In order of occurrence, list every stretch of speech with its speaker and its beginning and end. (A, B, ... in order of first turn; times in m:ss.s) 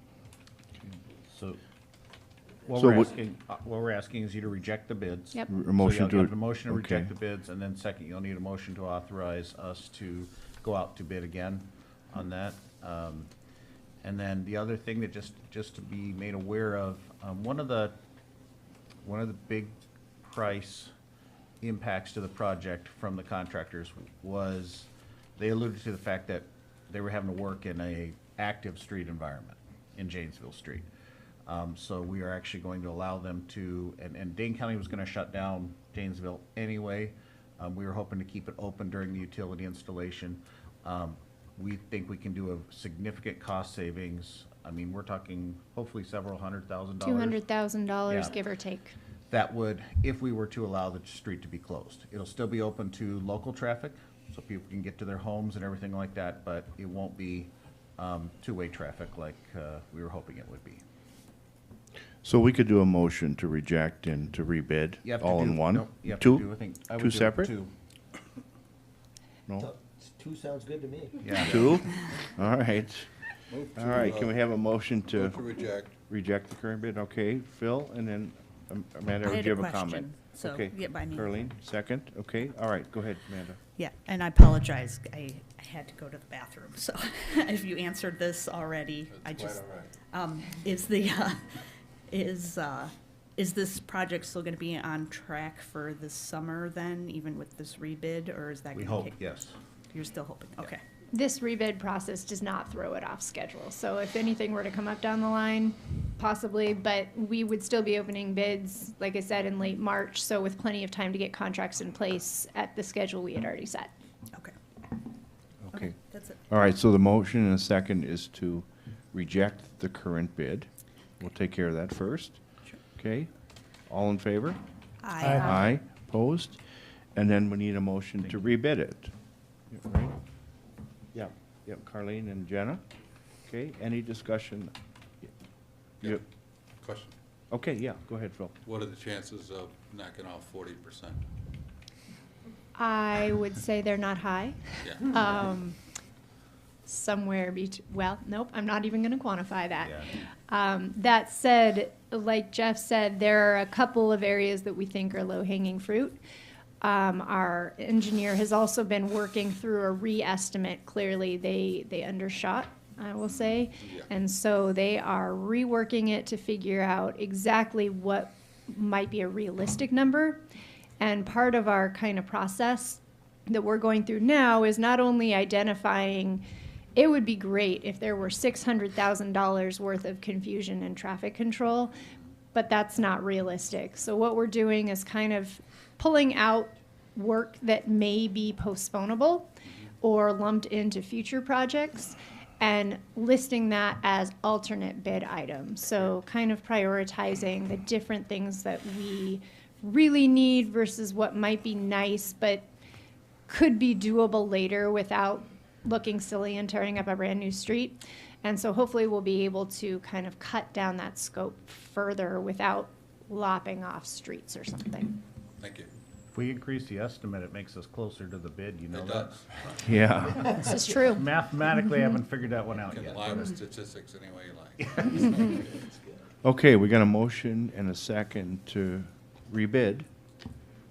0:01.3-0:01.6 A
0:02.6-0:13.3 A
0:02.7-0:03.1 B
0:05.5-0:07.1 B
0:14.0-0:17.9 A
0:19.0-0:20.9 A
0:21.6-0:30.9 A
0:31.4-0:47.4 A
0:47.0-0:48.9 C
0:48.1-0:48.3 A
0:49.3-1:00.8 A
1:02.2-1:07.5 B
1:05.0-1:07.7 A
1:09.6-1:11.8 D
1:11.2-1:11.6 A
1:11.3-1:13.1 B
1:11.4-1:11.7 E
1:13.5-1:14.4 E
1:13.8-1:15.4 B
1:15.1-1:15.9 E
1:16.0-1:23.6 B
1:19.2-1:21.3 F
1:23.8-1:31.4 F
1:29.1-1:29.9 E
1:32.1-1:39.2 F
1:38.7-1:39.6 A
1:39.9-1:40.8 F
1:41.1-1:53.9 C
1:55.7-1:55.9 B
1:55.7-1:56.4 F
1:56.5-2:00.7 B
2:01.2-2:02.4 B
2:02.9-2:03.3 B
2:03.9-2:04.6 B
2:05.0-2:05.7 F
2:05.3-2:06.6 B
2:07.1-2:09.1 B
2:09.7-2:10.1 B
2:11.1-2:12.8 B
2:13.4-2:14.7 B
2:16.8-2:17.1 E
2:17.5-2:18.5 B
2:18.6-2:21.2 E
2:22.8-2:25.8 C
2:24.8-2:25.1 E
2:26.8-2:36.2 C
2:29.8-2:30.2 A
2:36.8-2:50.4 C
2:43.8-2:44.0 E
2:51.0-3:22.7 C
3:23.5-3:35.2 C
3:35.6-3:35.9 E
3:36.3-3:39.7 A
3:38.9-3:39.9 E
3:39.8-3:40.7 B
3:40.5-3:41.2 C
3:41.0-3:43.5 A
3:42.8-3:45.6 E
3:45.2-3:46.0 D
3:46.4-3:50.0 B